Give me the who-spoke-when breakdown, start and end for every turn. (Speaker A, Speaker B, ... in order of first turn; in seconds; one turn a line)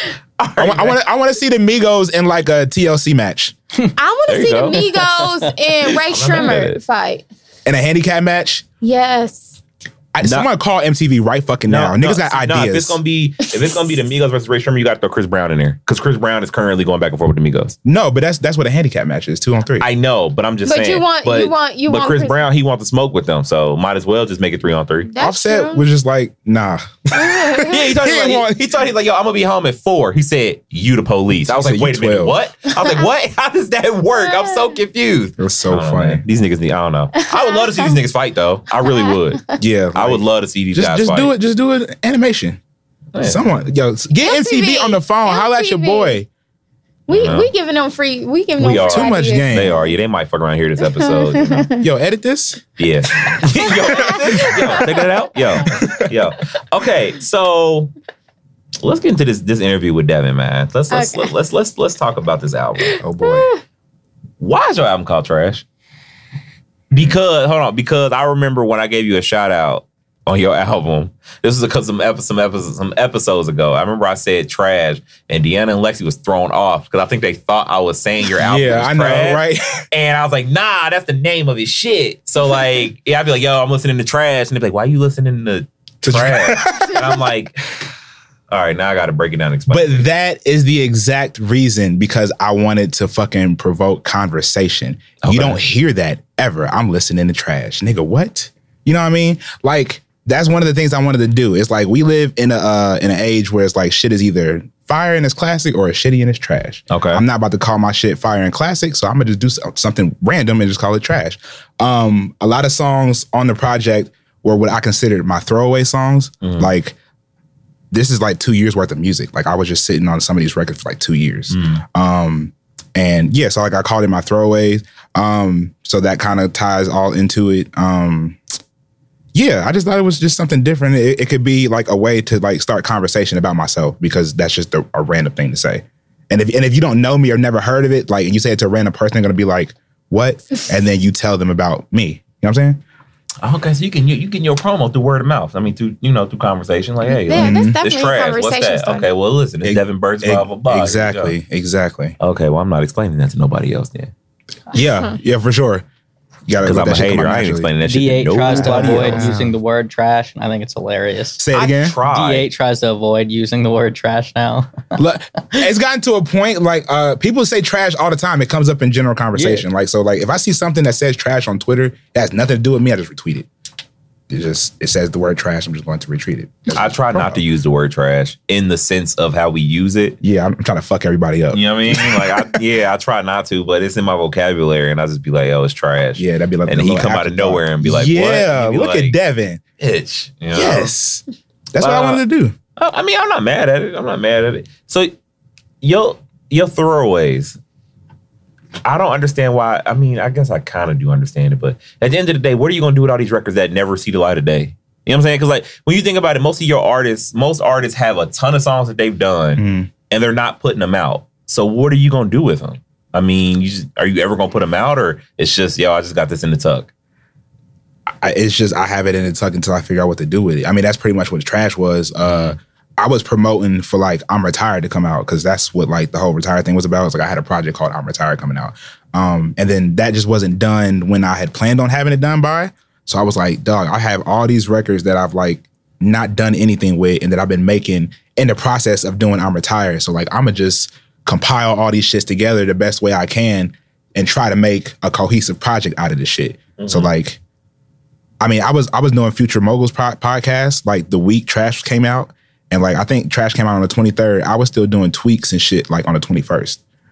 Speaker A: 0.4-1.0
Speaker B: 0.6-3.5
Speaker C: 4.0-7.3
Speaker A: 4.3-5.1
Speaker D: 5.3-5.5
Speaker A: 5.8-6.8
Speaker B: 7.7-8.7
Speaker C: 8.8-9.6
Speaker B: 10.1-13.0
Speaker A: 10.2-10.5
Speaker A: 11.7-17.8
Speaker B: 17.9-19.9
Speaker A: 19.8-25.1
Speaker C: 20.7-22.4
Speaker C: 25.1-25.9
Speaker B: 25.2-28.6
Speaker C: 27.1-27.8
Speaker A: 27.7-41.4
Speaker B: 31.5-32.4
Speaker C: 34.2-34.7
Speaker B: 35.4-36.2
Speaker C: 37.3-38.0
Speaker B: 39.6-42.6
Speaker A: 43.1-43.6
Speaker B: 43.2-46.3
Speaker C: 44.2-46.2
Speaker C: 47.1-49.9
Speaker A: 47.1-47.5
Speaker A: 48.6-51.7
Speaker B: 48.9-49.8
Speaker C: 51.0-51.9
Speaker B: 51.8-52.6
Speaker A: 52.8-57.9
Speaker B: 53.2-54.8
Speaker C: 53.7-54.9
Speaker B: 55.7-56.1
Speaker A: 58.8-63.0
Speaker C: 60.9-61.3
Speaker C: 62.9-63.6
Speaker B: 63.0-63.5
Speaker A: 64.4-65.7
Speaker A: 66.9-87.7
Speaker B: 78.4-79.8
Speaker B: 86.0-87.3
Speaker A: 88.5-90.1
Speaker B: 89.7-117.0
Speaker A: 95.2-95.6
Speaker A: 106.9-107.2
Speaker A: 116.4-116.7
Speaker B: 117.9-128.4
Speaker A: 121.5-121.8
Speaker B: 129.3-142.8
Speaker A: 143.4-151.4
Speaker C: 147.1-149.1
Speaker B: 147.3-147.8
Speaker B: 149.6-152.2
Speaker A: 152.2-154.1
Speaker B: 154.7-155.8
Speaker B: 156.5-157.7
Speaker A: 156.6-159.3
Speaker D: 157.8-161.4
Speaker B: 158.5-159.5
Speaker B: 161.4-162.0
Speaker A: 161.5-162.5
Speaker D: 162.1-164.7
Speaker B: 165.0-173.5
Speaker D: 169.4-169.6
Speaker B: 174.3-177.4
Speaker A: 176.7-180.2
Speaker B: 180.2-182.6
Speaker A: 181.5-189.2
Speaker B: 186.2-189.6
Speaker A: 189.8-190.9
Speaker B: 190.5-191.2
Speaker B: 191.7-192.6
Speaker A: 191.8-192.2
Speaker A: 192.8-195.2
Speaker A: 195.8-197.6
Speaker A: 198.8-216.9
Speaker B: 209.6-209.9
Speaker B: 218.2-247.4
Speaker A: 222.2-222.6
Speaker A: 246.8-247.1
Speaker B: 248.4-256.8